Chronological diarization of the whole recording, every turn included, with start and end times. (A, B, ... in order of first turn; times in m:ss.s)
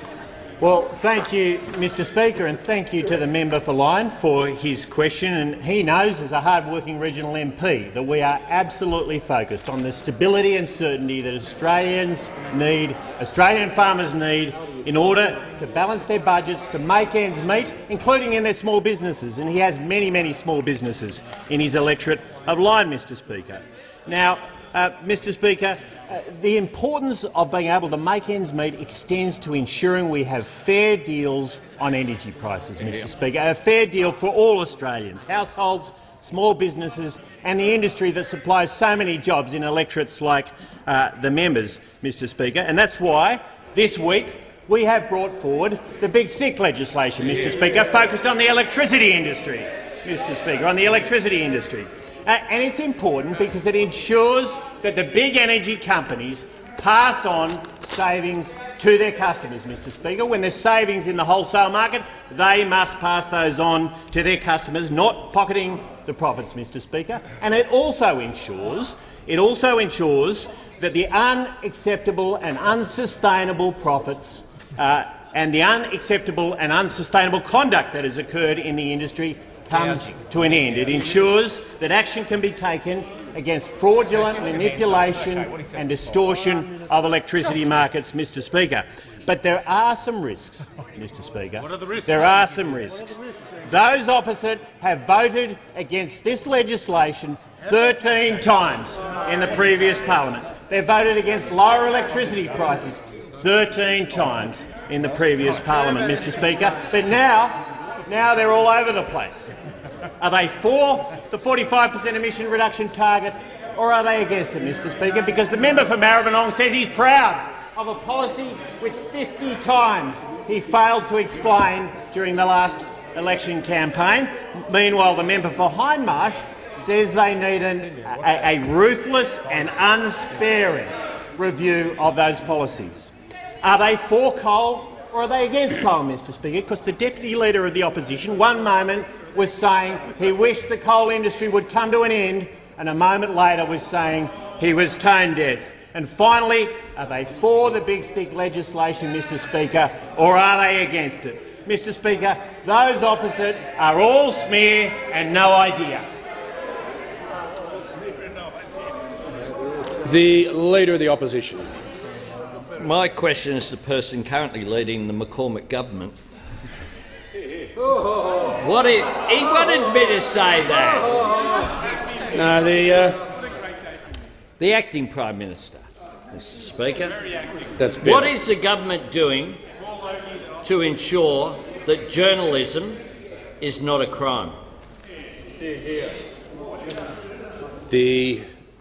0:00.6-1:49.5 A
1:50.2-2:36.1 A
2:40.0-2:41.7 B
2:42.8-2:46.2 C
2:48.6-2:51.2 C
2:52.3-2:53.2 B
2:54.6-2:57.2 C
2:57.8-2:58.4 B
2:58.0-2:59.6 C
3:00.6-3:03.0 C
3:03.6-3:04.6 C
3:07.9-3:08.4 B